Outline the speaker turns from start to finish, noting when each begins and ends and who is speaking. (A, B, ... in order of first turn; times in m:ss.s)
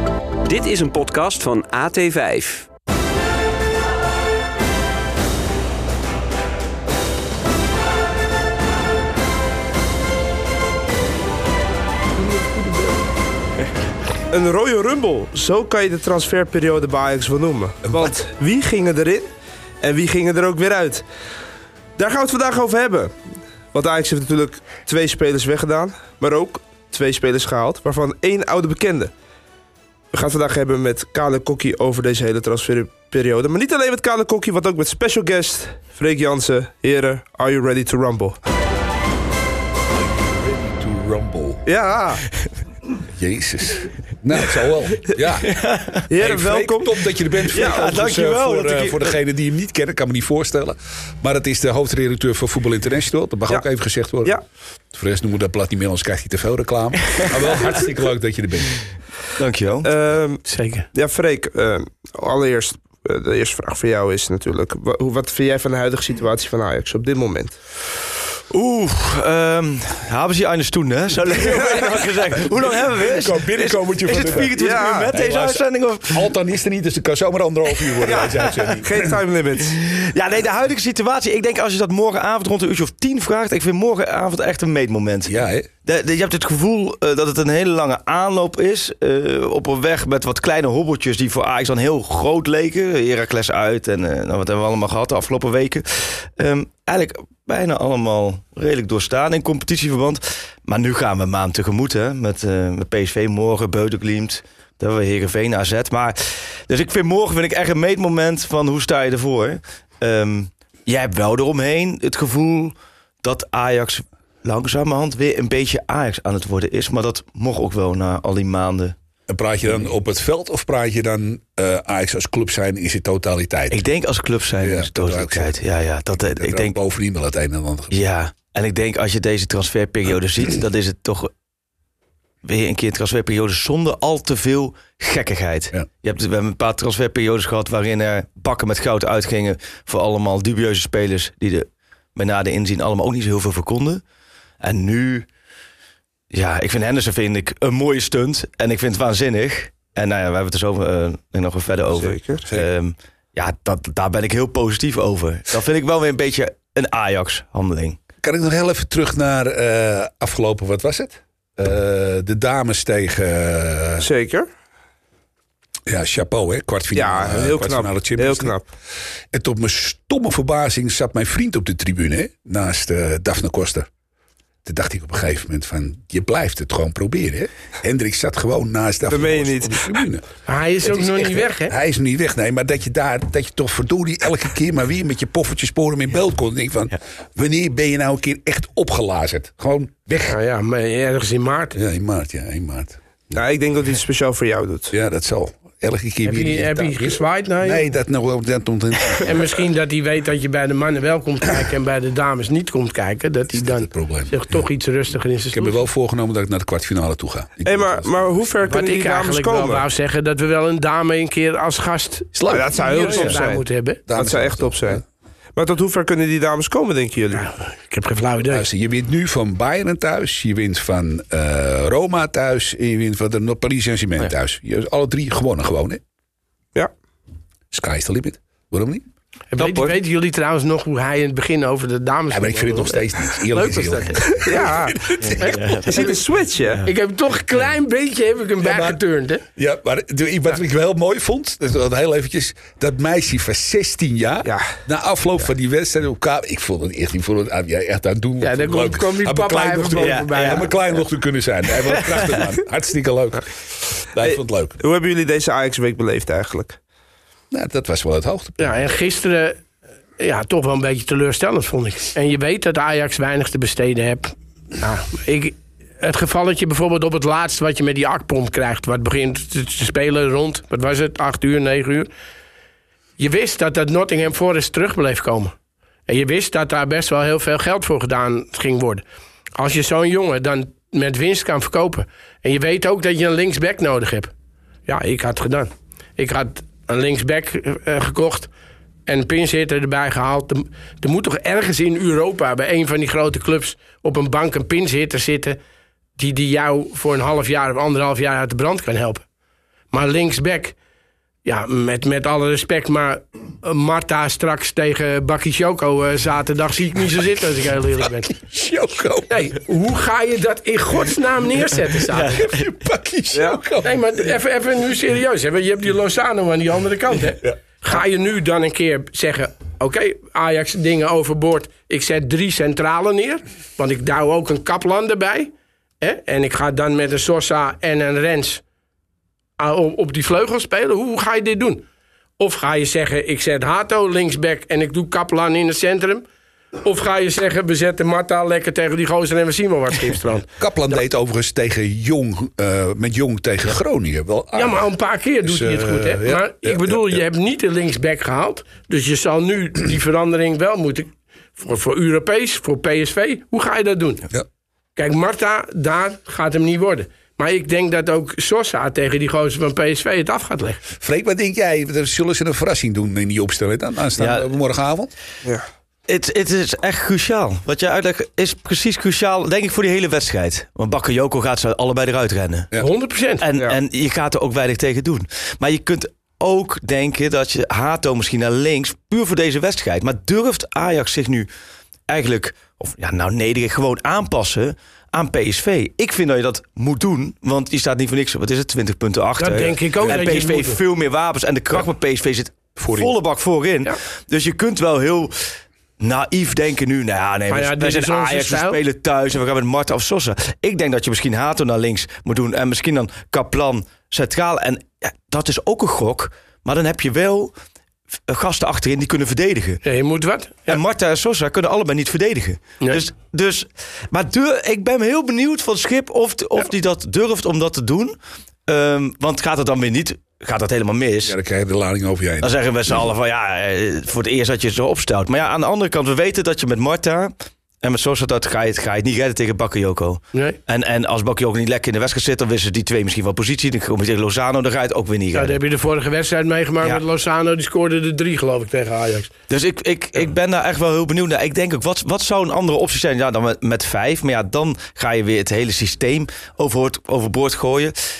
0:00.4-0:02.7 A
0:14.3-0:19.3 B
0:17.8-0:18.1 C
0:19.8-0:21.0 B
0:22.0-0:29.1 B
0:30.1-0:38.4 B
0:40.1-0:41.6 C
0:41.6-0:42.2 B
0:43.1-0:45.5 C
0:45.5-0:46.9 D
0:46.1-0:46.9 B
0:46.2-0:54.4 C
0:47.5-0:49.2 D
0:47.5-0:48.2 B
0:54.9-0:58.8 C
0:57.0-0:57.6 D
0:59.4-0:59.9 D
0:59.8-1:07.6 B
1:00.4-1:00.9 E
1:08.5-1:16.3 D
1:11.4-1:11.9 B
1:12.4-1:19.1 C
1:14.3-1:15.1 B
1:17.9-1:18.7 D
1:18.0-1:19.7 B
1:19.6-1:58.9 D
1:25.2-1:25.7 C
1:59.3-2:03.8 C
2:03.7-2:06.8 D
2:04.6-2:05.6 C
2:06.1-2:08.0 C
2:07.9-2:11.3 D
2:12.4-2:24.0 D
2:24.6-2:25.3 D
2:26.3-2:38.0 D
2:31.9-2:32.4 B
2:38.2-2:44.1 C
2:44.0-2:44.5 B
2:45.9-2:48.5 C
2:46.9-2:48.6 B
2:49.3-2:53.9 C
2:54.6-3:00.2 C
2:59.1-3:00.0 B
3:00.4-3:01.7 E
3:00.8-3:10.4 C
3:10.3-3:11.8 E
3:11.7-3:13.4 C
3:13.3-3:14.9 B
3:14.9-3:19.5 C
3:16.2-3:17.8 E
3:19.2-3:25.8 E
3:23.5-3:24.6 C
3:25.5-3:28.4 C
3:27.6-3:29.8 B
3:28.6-3:34.0 E
3:32.3-3:33.4 C
3:32.5-3:35.0 B
3:34.1-3:35.0 C
3:35.6-3:37.4 B
3:37.3-3:38.6 E
3:38.5-3:46.0 C
3:47.7-3:49.0 C
3:49.5-3:54.6 E
3:49.6-3:49.9 D
3:52.3-3:55.8 C
3:54.4-3:55.1 B
3:55.2-3:56.1 D
3:55.4-3:56.1 E
3:55.8-3:56.8 B
3:56.8-3:59.4 E
3:58.6-3:59.0 C
3:59.6-4:14.8 C
4:08.4-4:10.7 E
4:10.0-4:10.7 D
4:12.0-4:12.4 D
4:14.2-4:16.8 B
4:17.5-4:18.7 C
4:18.6-4:19.6 E
4:20.2-4:32.1 E
4:33.2-4:35.5 E
4:36.1-4:39.0 E
4:39.6-4:44.3 E
4:44.9-4:48.5 E
4:49.0-4:55.6 E
4:56.2-4:59.2 E
4:59.9-5:00.8 E
5:01.4-5:08.3 E
5:08.3-5:09.3 C
5:09.3-5:12.5 E
5:12.1-5:12.6 D
5:12.4-5:14.0 C
5:13.3-5:13.6 B
5:13.8-5:28.6 E
5:29.6-5:31.8 E
5:32.4-5:36.2 E
5:36.8-5:41.0 E
5:40.6-5:44.8 C
5:44.5-5:54.2 E
5:45.4-5:47.2 C
5:55.0-6:00.8 E
6:01.0-6:05.1 C
6:04.2-6:04.4 D
6:06.1-6:12.7 D
6:12.8-6:13.4 E
6:13.4-6:21.5 D
6:22.1-6:47.5 D
6:29.4-6:30.8 E
6:32.8-6:33.1 C
6:37.5-6:38.8 E
6:48.3-6:49.8 D
6:49.8-6:50.8 E
6:50.7-6:58.1 D
6:58.7-7:01.4 D
7:01.2-7:02.5 C
7:02.4-7:15.6 D
7:15.3-7:19.3 E
7:19.5-7:27.9 D